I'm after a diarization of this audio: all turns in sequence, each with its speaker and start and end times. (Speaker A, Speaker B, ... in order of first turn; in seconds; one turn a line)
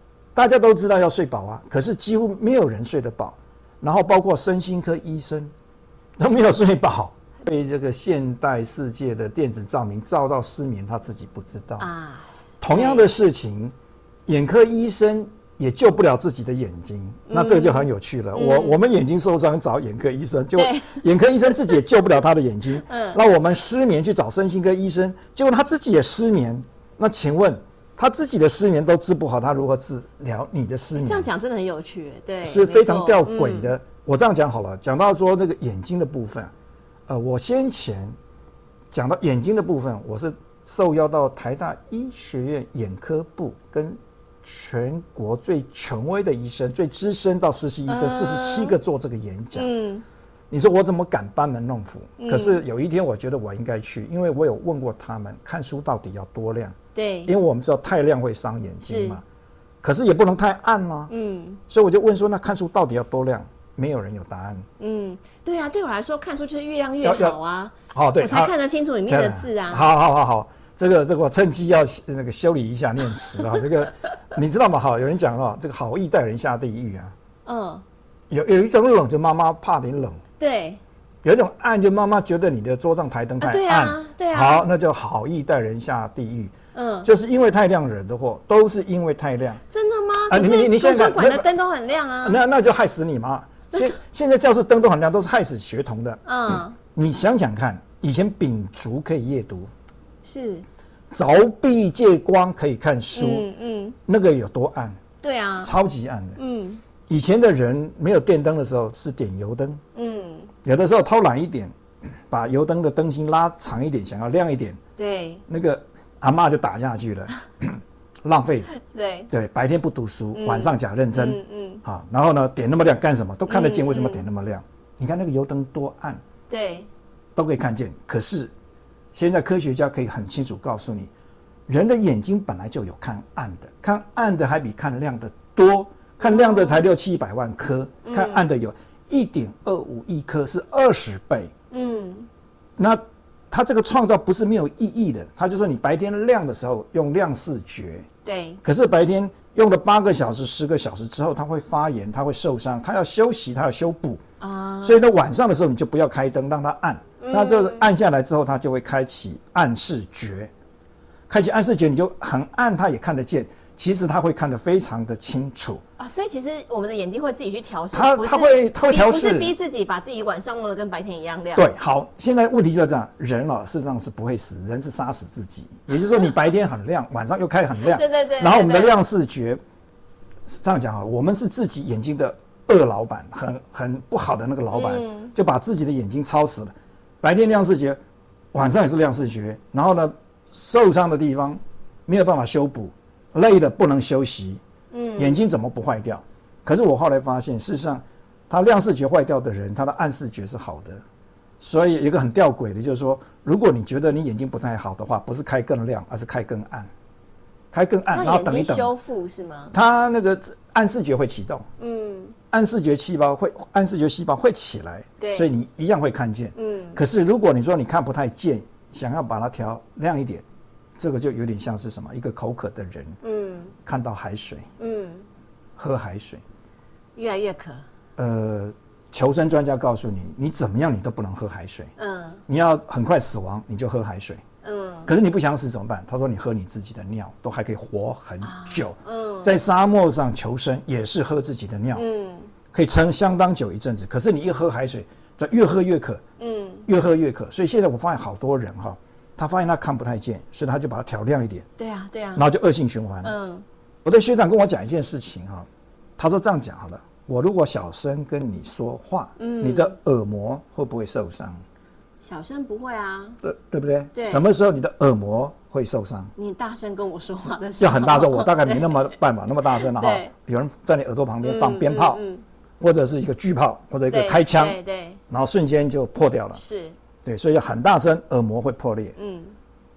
Speaker A: 0.3-5.5
Speaker A: 6.2-11.9
Speaker B: 11.8-13.1
Speaker A: 12.6-13.7
Speaker A: 14.3-31.3
Speaker B: 17.3-18.8
Speaker B: 20.6-21.0
Speaker B: 22.8-23.2
Speaker B: 30.9-33.7
Speaker A: 32.4-36.5
Speaker A: 37.1-38.1
Speaker A: 38.9-49.7
Speaker B: 47.9-48.7
Speaker B: 49.5-50.0
Speaker A: 50.5-59.2
Speaker B: 52.2-52.6
Speaker B: 56.9-57.3
Speaker B: 58.9-59.2
Speaker A: 59.8-61.1
Speaker B: 61.1-61.6
Speaker A: 61.7-64.7
Speaker B: 64.8-69.9
Speaker A: 67.0-67.4
Speaker A: 67.9-68.5
Speaker A: 69.1-77.1
Speaker B: 77.5-77.8
Speaker A: 78.3-80.2
Speaker B: 80.4-80.8
Speaker A: 81.2-89.6
Speaker B: 83.4-84.7
Speaker B: 86.7-87.1
Speaker B: 89.7-92.4
Speaker A: 90.3-91.5
Speaker A: 92.2-99.7
Speaker B: 96.2-96.8
Speaker B: 100.2-100.6
Speaker A: 101.1-103.5
Speaker B: 103.1-104.0
Speaker A: 104.0-105.0
Speaker B: 105.2-105.7
Speaker A: 105.6-106.4
Speaker B: 106.4-106.8
Speaker A: 107.1-109.8
Speaker B: 109.9-110.5
Speaker A: 110.6-111.7
Speaker A: 112.3-114.8
Speaker B: 115.0-115.4
Speaker A: 115.5-118.7
Speaker B: 118.7-119.3
Speaker A: 119.3-126.2
Speaker B: 120.3-121.8
Speaker B: 123.5-124.2
Speaker B: 126.5-126.9
Speaker A: 127.3-128.5
Speaker A: 129.1-131.1
Speaker A: 131.7-141.5
Speaker B: 136.2-136.8
Speaker B: 138.0-138.4
Speaker B: 141.7-142.3
Speaker A: 142.8-148.1
Speaker B: 148.2-148.6
Speaker A: 148.6-154.2
Speaker B: 154.4-155.0
Speaker A: 154.8-160.5
Speaker B: 157.2-157.9
Speaker A: 161.3-165.8
Speaker B: 166.0-171.7
Speaker A: 167.9-169.5
Speaker A: 171.5-179.6
Speaker B: 177.8-178.9
Speaker A: 180.5-188.0
Speaker B: 184.7-185.3
Speaker A: 188.5-194.6
Speaker B: 194.9-195.4
Speaker A: 195.2-201.0
Speaker A: 201.6-206.9
Speaker A: 207.7-208.9
Speaker B: 208.1-209.7
Speaker A: 209.7-211.7
Speaker B: 211.8-212.3
Speaker A: 212.5-220.4
Speaker B: 215.2-215.5
Speaker B: 216.6-217.0
Speaker A: 221.0-223.2
Speaker B: 223.2-223.7
Speaker A: 223.8-224.7
Speaker B: 224.8-225.2
Speaker A: 225.8-226.4
Speaker B: 227.2-227.8
Speaker A: 228.2-231.9
Speaker B: 232.0-232.4
Speaker A: 232.5-234.4
Speaker B: 234.6-235.1
Speaker A: 235.1-242.0
Speaker B: 238.4-239.6
Speaker B: 241.9-242.5
Speaker A: 242.7-246.2
Speaker B: 246.4-246.9
Speaker A: 246.9-251.7
Speaker B: 251.8-252.4
Speaker A: 252.3-253.3
Speaker B: 253.2-253.6
Speaker A: 254.0-255.7
Speaker A: 256.2-261.6
Speaker B: 259.4-259.9
Speaker B: 262.2-263.4
Speaker A: 263.4-266.3
Speaker B: 264.1-264.4
Speaker B: 266.4-269.1
Speaker A: 267.8-272.2
Speaker B: 269.7-270.3
Speaker B: 271.4-272.4
Speaker A: 272.8-276.6
Speaker B: 274.1-275.2
Speaker B: 276.6-276.9
Speaker A: 277.2-279.1
Speaker B: 279.1-279.5